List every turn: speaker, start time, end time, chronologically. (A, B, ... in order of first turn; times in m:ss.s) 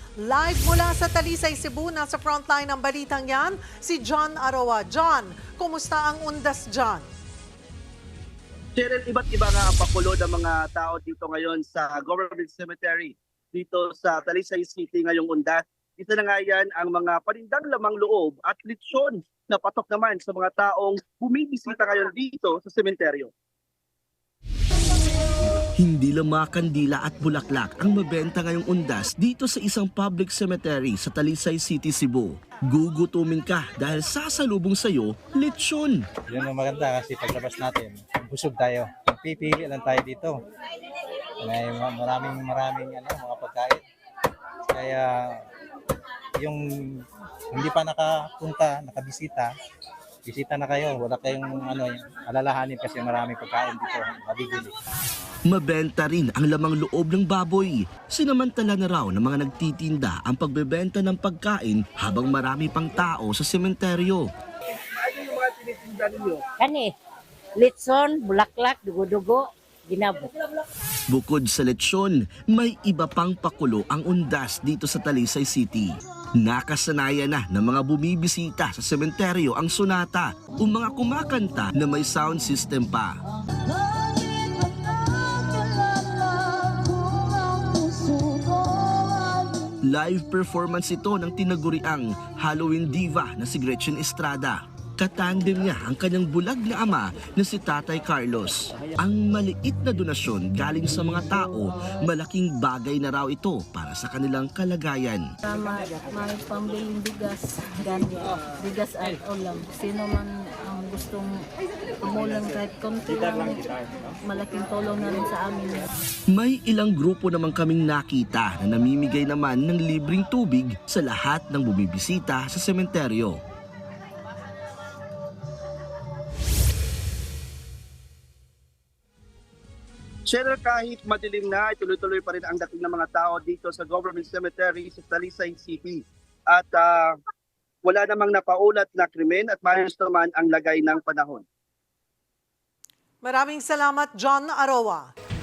0:00.2-0:07.1 A
0:08.8-0:23.3 B
0:25.8-0:36.1 C
0:36.3-0:40.3 D
0:41.4-0:43.8 D
0:44.7-0:45.4 D
0:47.5-0:49.5 D
0:50.3-0:54.7 D
0:55.5-1:04.3 C
1:04.8-1:06.4 B
1:06.6-1:07.0 E
1:07.6-1:10.3 E
1:11.1-1:23.2 C
1:23.6-1:29.8 F
1:29.8-1:45.3 C
1:45.4-1:51.5 F
1:52.0-1:55.9 F
1:56.3-2:03.4 C
2:10.3-2:17.2 B
2:17.8-2:21.4 B
2:23.2-2:25.1 A